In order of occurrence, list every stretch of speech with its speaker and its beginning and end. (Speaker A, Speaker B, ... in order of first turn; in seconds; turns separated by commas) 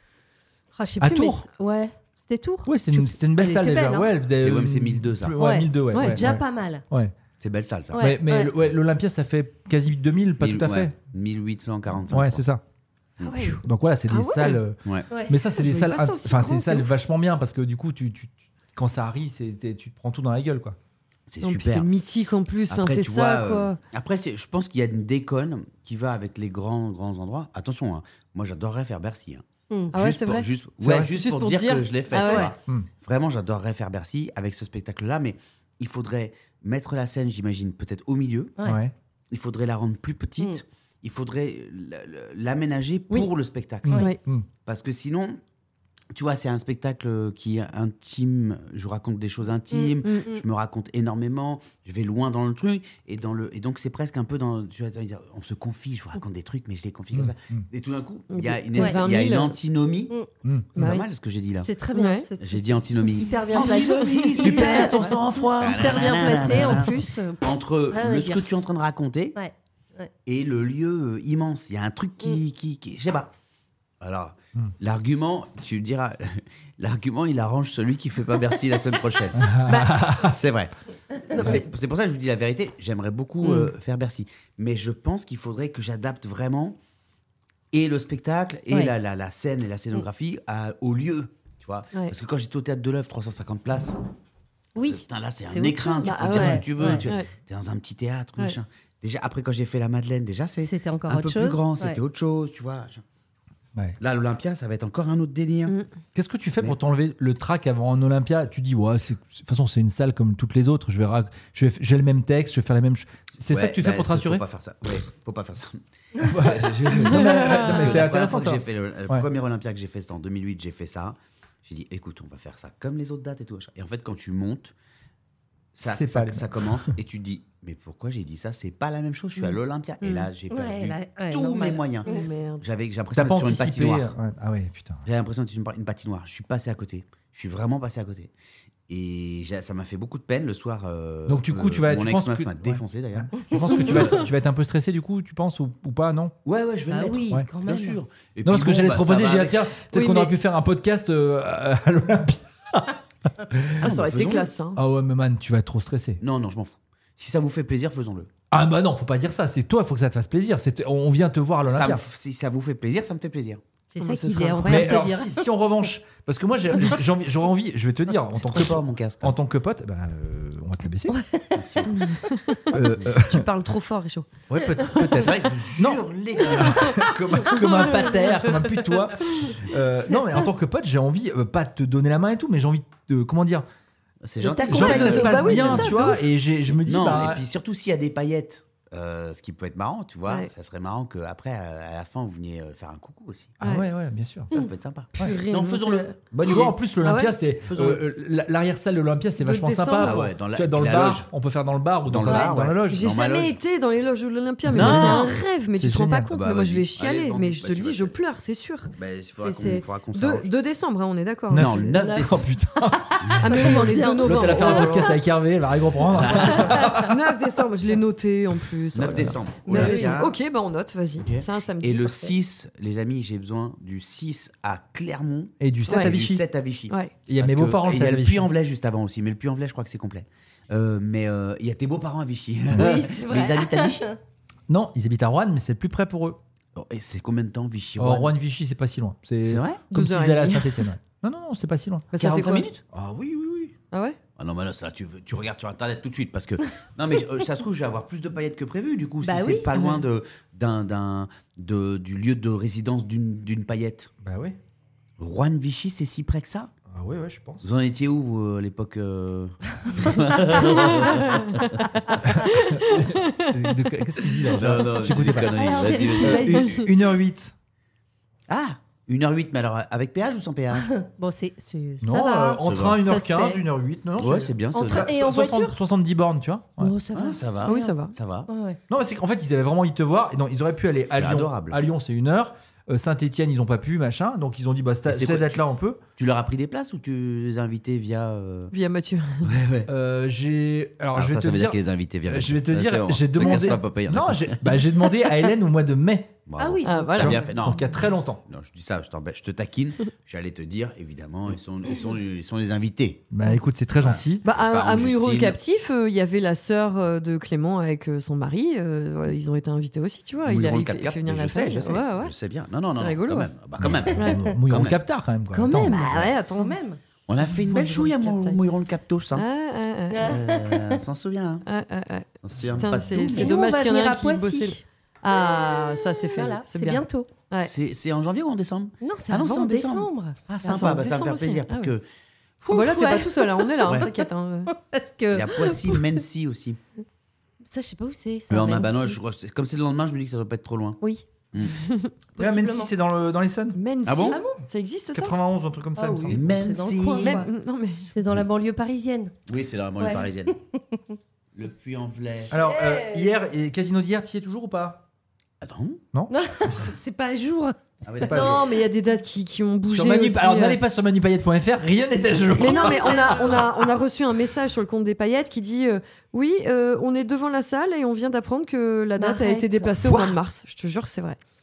Speaker A: 0.7-4.1, Speaker B: 1.0-1.5, Speaker B: 2.6-7.1, Speaker C: 4.3-5.4, Speaker A: 5.4-6.8, Speaker D: 5.9-6.2, Speaker C: 7.4-8.2, Speaker A: 7.9-8.5, Speaker B: 8.0-10.9, Speaker C: 10.4-12.4, Speaker B: 12.1-12.6, Speaker D: 13.2-14.6, Speaker B: 13.6-20.8, Speaker D: 15.5-16.9, Speaker C: 21.3-21.9, Speaker D: 21.4-23.8, Speaker C: 22.7-38.6, Speaker D: 29.9-32.5, Speaker B: 30.8-31.1, Speaker A: 32.2-32.5, Speaker B: 38.6-38.9, Speaker C: 39.3-44.1, Speaker B: 43.9-44.5, Speaker C: 44.6-45.4, Speaker C: 46.1-60.1, Speaker A: 49.7-50.4, Speaker B: 57.1-57.6, Speaker D: 58.3-59.6, Speaker B: 60.4-60.7, Speaker C: 60.7-61.7, Speaker D: 60.8-61.0, Speaker A: 61.6-68.5, Speaker D: 61.9-62.3, Speaker C: 62.4-69.4, Speaker D: 64.0-64.7, Speaker B: 64.3-67.0, Speaker A: 69.3-70.1, Speaker C: 70.2-73.3, Speaker C: 74.0-80.7, Speaker B: 79.3-80.4, Speaker D: 79.7-79.9, Speaker C: 81.3-86.8, Speaker D: 81.4-81.7, Speaker C: 87.7-94.0, Speaker A: 94.7-97.0, Speaker C: 94.8-103.0, Speaker D: 96.0-97.3, Speaker A: 100.6-102.0, Speaker C: 104.0-105.8, Speaker B: 106.1-114.4, Speaker C: 113.5-124.7, Speaker B: 116.2-119.2, Speaker D: 117.2-118.0, Speaker C: 125.7-134.1, Speaker B: 125.8-126.9, Speaker D: 130.0-130.3, Speaker A: 130.5-132.2, Speaker D: 132.1-132.6, Speaker B: 133.1-135.0, Speaker C: 135.0-138.3, Speaker C: 138.9-144.3, Speaker B: 141.3-146.3, Speaker C: 146.4-149.7, Speaker A: 146.9-148.0, Speaker B: 148.4-153.9, Speaker D: 149.9-150.3, Speaker C: 153.8-154.5, Speaker D: 153.8-154.8, Speaker B: 154.7-156.2, Speaker C: 156.2-158.3, Speaker B: 158.5-162.0, Speaker C: 161.6-163.6, Speaker A: 163.9-165.4, Speaker D: 164.0-165.1, Speaker B: 164.6-171.2, Speaker C: 168.3-169.3, Speaker A: 171.1-171.9, Speaker C: 171.5-172.1, Speaker D: 171.9-174.3, Speaker B: 172.7-173.4, Speaker B: 174.5-183.7, Speaker D: 174.9-175.3, Speaker C: 175.1-176.8, Speaker D: 177.5-178.8, Speaker C: 184.2-186.1, Speaker A: 184.4-185.8, Speaker B: 184.7-187.4, Speaker D: 184.8-186.2, Speaker C: 186.8-193.6, Speaker B: 193.6-194.5, Speaker D: 193.6-193.9, Speaker C: 194.5-196.8, Speaker D: 195.2-196.2, Speaker B: 196.4-203.1, Speaker D: 197.0-197.3, Speaker C: 197.6-198.0, Speaker D: 199.4-200.3, Speaker C: 200.0-201.3, Speaker C: 202.0-203.6, Speaker A: 202.2-202.5, Speaker D: 202.9-211.8, Speaker C: 204.7-205.4, Speaker B: 204.7-206.3, Speaker C: 206.3-208.1, Speaker C: 208.9-210.5, Speaker B: 211.5-217.1, Speaker C: 211.5-212.5, Speaker A: 211.9-212.3, Speaker A: 213.4-214.9, Speaker D: 213.4-215.2, Speaker C: 216.1-216.8, Speaker D: 216.2-222.3, Speaker C: 218.9-220.4, Speaker A: 219.7-220.1, Speaker C: 221.2-234.1, Speaker B: 225.6-226.4, Speaker D: 225.9-226.2, Speaker D: 226.9-227.2, Speaker B: 227.3-228.5, Speaker A: 232.7-234.2, Speaker B: 234.7-236.4, Speaker C: 236.7-238.3, Speaker B: 238.0-242.1, Speaker C: 239.4-239.8, Speaker D: 239.9-240.9, Speaker D: 242.1-242.7, Speaker C: 242.2-242.8, Speaker B: 242.9-243.7, Speaker D: 243.9-244.2, Speaker C: 244.4-254.1, Speaker A: 249.2-249.8, Speaker B: 254.2-254.6, Speaker C: 255.2-256.7, Speaker B: 256.9-257.7, Speaker C: 257.6-261.8, Speaker D: 260.8-261.7, Speaker B: 262.2-265.5, Speaker D: 262.6-263.8, Speaker C: 264.5-266.8, Speaker A: 265.3-266.8, Speaker B: 266.2-267.5, Speaker C: 268.5-270.9, Speaker A: 270.7-273.6, Speaker B: 272.0-276.9, Speaker C: 272.6-273.3, Speaker C: 274.2-275.1, Speaker A: 274.7-275.7, Speaker A: 276.8-278.0, Speaker C: 277.1-278.5, Speaker D: 277.6-278.1, Speaker A: 278.5-278.8, Speaker B: 278.9-286.0, Speaker C: 281.1-281.8, Speaker C: 285.1-285.6, Speaker C: 286.2-288.7, Speaker D: 288.7-289.5, Speaker C: 289.4-289.9, Speaker B: 289.9-296.4, Speaker C: 291.1-294.9, Speaker C: 296.5-303.3, Speaker A: 296.6-297.5, Speaker D: 296.8-297.5, Speaker B: 297.1-298.4, Speaker B: 303.3-304.4, Speaker C: 304.0-305.6, Speaker D: 304.4-312.3, Speaker C: 310.4-315.0, Speaker D: 312.9-313.5, Speaker B: 313.8-316.0, Speaker D: 314.1-314.4, Speaker A: 315.5-317.0, Speaker D: 315.9-316.8, Speaker C: 315.9-316.3, Speaker C: 317.3-319.5, Speaker D: 317.5-318.6, Speaker D: 319.3-320.4, Speaker A: 320.1-321.0, Speaker C: 320.2-321.6, Speaker D: 321.6-327.7, Speaker C: 322.4-323.6, Speaker A: 323.3-324.8, Speaker A: 325.4-327.3, Speaker C: 327.6-332.0, Speaker A: 329.0-330.4, Speaker D: 330.6-331.9, Speaker A: 332.7-334.1, Speaker D: 332.7-334.7, Speaker A: 334.7-336.1, Speaker C: 335.3-336.8, Speaker A: 337.6-339.2, Speaker C: 338.5-341.0, Speaker C: 341.5-341.8, Speaker A: 342.4-342.9, Speaker B: 342.4-343.8, Speaker D: 343.7-345.4, Speaker C: 344.0-344.4, Speaker A: 344.2-344.6, Speaker B: 345.1-346.4, Speaker A: 345.9-347.5, Speaker C: 346.3-347.4, Speaker D: 347.2-348.1, Speaker A: 348.1-349.3, Speaker C: 349.5-350.5, Speaker A: 350.0-351.1, Speaker C: 351.5-352.6, Speaker B: 352.5-355.0, Speaker A: 352.6-353.3, Speaker C: 355.6-356.0, Speaker A: 356.3-358.3, Speaker C: 358.0-358.6, Speaker D: 358.3-360.8, Speaker B: 359.9-363.6, Speaker A: 362.1-363.5, Speaker D: 362.6-371.4, Speaker A: 369.2-369.9